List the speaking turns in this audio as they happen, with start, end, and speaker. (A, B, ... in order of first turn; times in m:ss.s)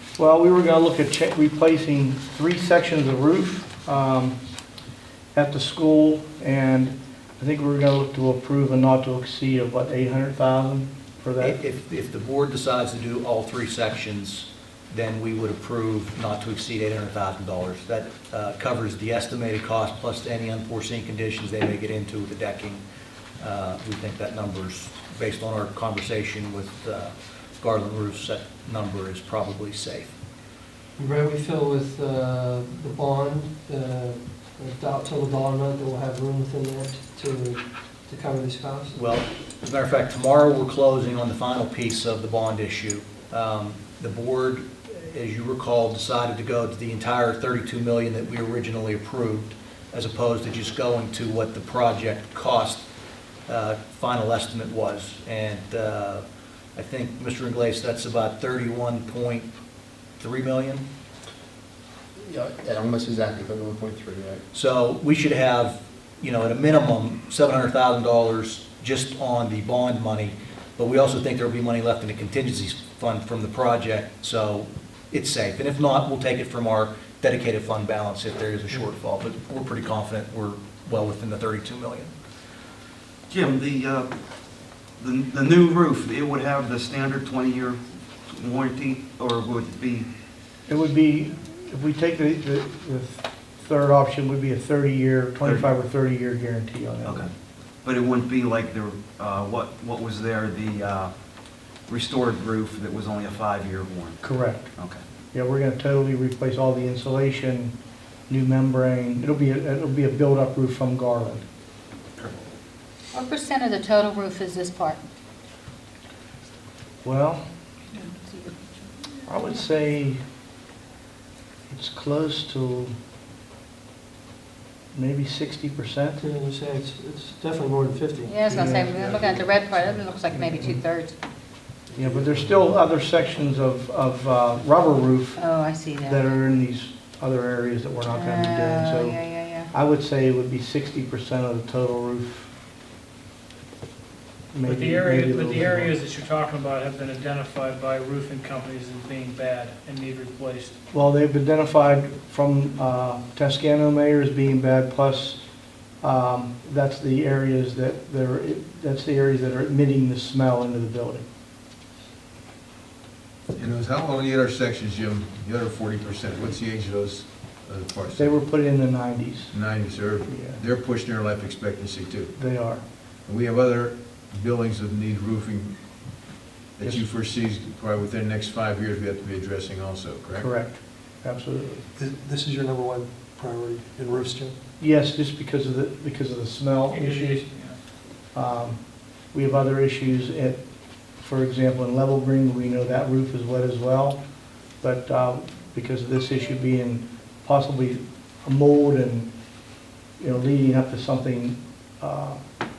0:00.2-0:04.4 A
0:05.3-0:11.6 A
0:11.4-0:22.8 B
0:23.4-0:30.1 B
0:31.0-0:39.0 C
0:38.9-0:52.8 B
0:53.5-0:56.2 B
0:56.8-0:59.5 B
1:00.2-1:00.8 B
1:02.2-1:04.4 D
1:04.5-1:22.1 B
1:23.3-1:24.1 E
1:25.0-1:27.8 E
1:28.3-1:30.1 E
1:30.7-1:37.3 A
1:37.8-1:41.1 E
1:41.9-1:44.2 E
1:44.2-1:44.7 A
1:45.3-1:47.7 A
1:48.3-1:51.4 A
1:53.1-1:55.0 F
1:57.0-1:57.4 A
1:57.9-1:59.2 F
1:59.3-2:00.2 A
2:01.7-2:02.9 A
2:04.9-2:06.2 A
2:06.2-2:10.0 C
2:08.3-2:11.1 F
2:08.5-2:09.0 A
2:10.3-2:10.7 A
2:12.0-2:15.4 A
2:15.4-2:16.2 F
2:16.0-2:22.5 A
2:18.0-2:19.7 F
2:24.5-2:26.0 A
2:24.6-2:30.8 G
2:30.9-2:35.4 A
2:36.0-2:41.2 A
2:43.5-2:48.4 H
2:48.2-2:49.5 A
2:49.5-2:52.3 H
2:50.2-2:50.6 A
2:52.4-2:52.8 A
2:53.1-3:00.5 H
3:00.3-3:01.9 A
3:02.0-3:04.6 C
3:04.8-3:07.5 A
3:06.9-3:07.8 G
3:08.3-3:14.2 A
3:14.8-3:19.3 A
3:20.2-3:22.4 A